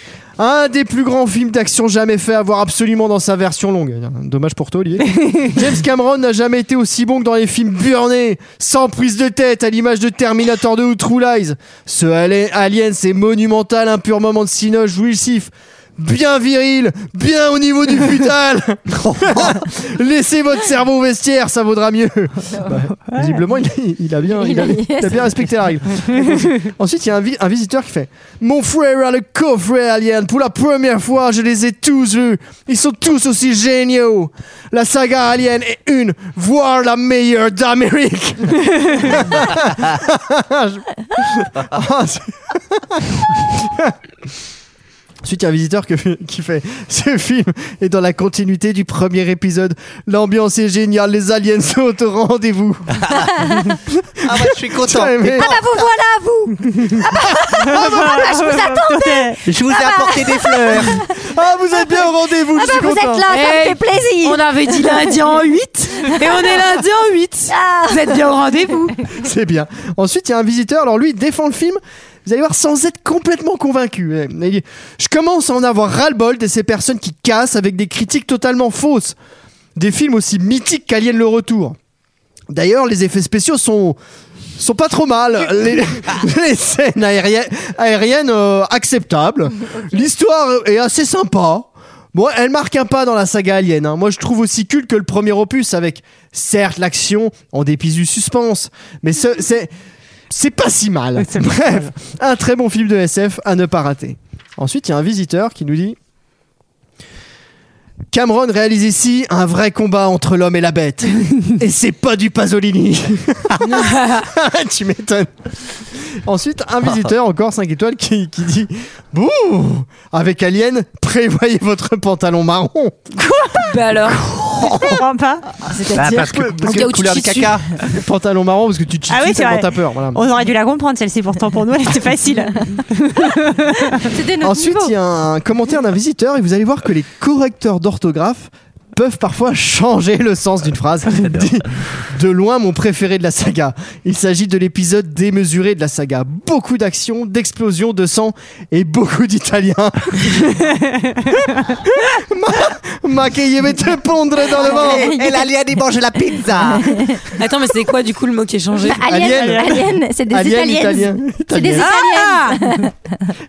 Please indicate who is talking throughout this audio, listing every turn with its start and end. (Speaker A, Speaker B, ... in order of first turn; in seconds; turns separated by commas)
Speaker A: 0.4-43.9, Speaker B: 18.9-19.7, Speaker C: 23.1-23.4, Speaker D: 24.2-25.4, Speaker A: 45.2-55.5, Speaker B: 54.2-55.6, Speaker D: 55.4-61.1, Speaker C: 57.5-59.4, Speaker B: 59.5-61.0, Speaker A: 61.2-63.2, Speaker D: 62.5-65.1, Speaker E: 63.3-69.0, Speaker D: 67.5-68.2, Speaker A: 69.1-79.2, Speaker A: 79.8-81.8, Speaker A: 82.5-84.0, Speaker A: 84.6-99.7, Speaker A: 100.3-106.0, Speaker C: 101.2-101.8, Speaker A: 108.1-123.1, Speaker E: 113.6-114.3, Speaker C: 123.2-123.8, Speaker E: 123.6-124.2, Speaker A: 124.3-124.8, Speaker C: 124.5-125.5, Speaker D: 125.7-127.0, Speaker B: 125.9-127.7, Speaker E: 126.6-127.5, Speaker A: 127.8-130.2, Speaker C: 129.1-134.1, Speaker D: 134.0-134.9, Speaker A: 134.4-150.7, Speaker A: 151.3-155.1, Speaker B: 154.6-157.1, Speaker D: 154.6-155.5, Speaker D: 156.7-157.2, Speaker E: 157.4-159.0, Speaker D: 158.8-163.3, Speaker A: 159.0-161.9, Speaker C: 159.3-159.7, Speaker E: 161.8-162.6